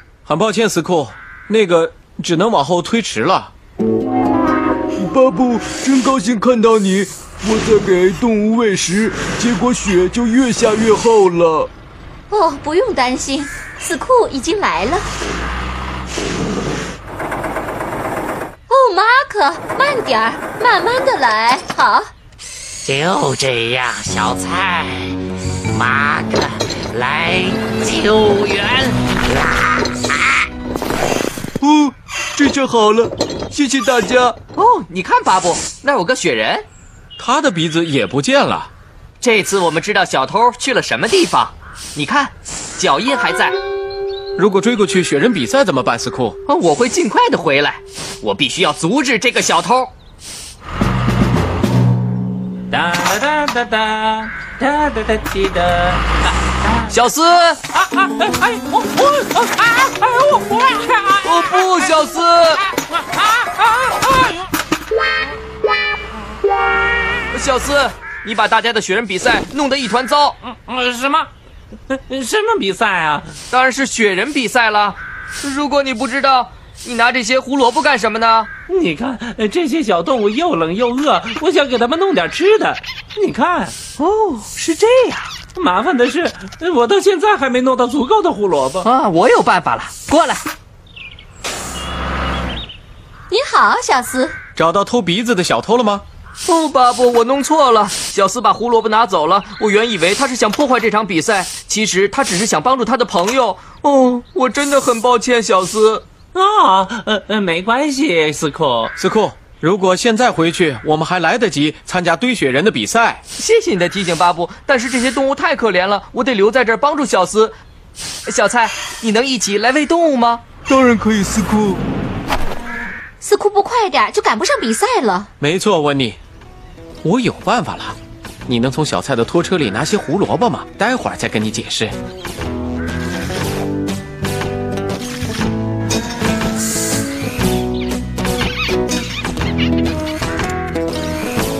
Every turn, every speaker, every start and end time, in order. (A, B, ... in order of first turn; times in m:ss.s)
0:00.2-0:03.5 A
0:05.1-0:08.6 B
0:09.2-0:09.8 B
0:12.3-0:15.0 C
0:18.7-0:22.1 C
0:22.8-0:25.2 D
0:25.7-0:29.7 D
0:31.6-0:34.3 B
0:34.5-0:36.6 E
0:37.2-0:38.7 A
0:39.2-0:43.6 E
0:44.4-0:46.4 A
0:46.5-0:49.9 E
0:52.7-0:56.0 F
0:56.9-0:57.6 E
0:57.8-1:01.7 F
1:01.2-1:02.6 E
1:03.2-1:04.3 F
1:07.3-1:10.4 E
1:10.4-1:11.3 F
1:11.9-1:13.3 F
1:13.5-1:18.5 E
1:18.7-1:23.8 F
1:24.0-1:25.2 E
1:25.5-1:28.9 F
1:28.8-1:30.4 E
1:33.3-1:34.4 C
1:34.6-1:36.0 A
1:36.4-1:46.0 E
1:46.3-1:48.9 F
1:49.0-1:53.2 A
1:53.4-1:57.5 E
1:58.2-2:00.5 E
2:00.7-2:01.7 B
2:03.2-2:05.3 C
2:05.4-2:06.2 A
2:07.0-2:08.0 A
2:08.5-2:11.9 A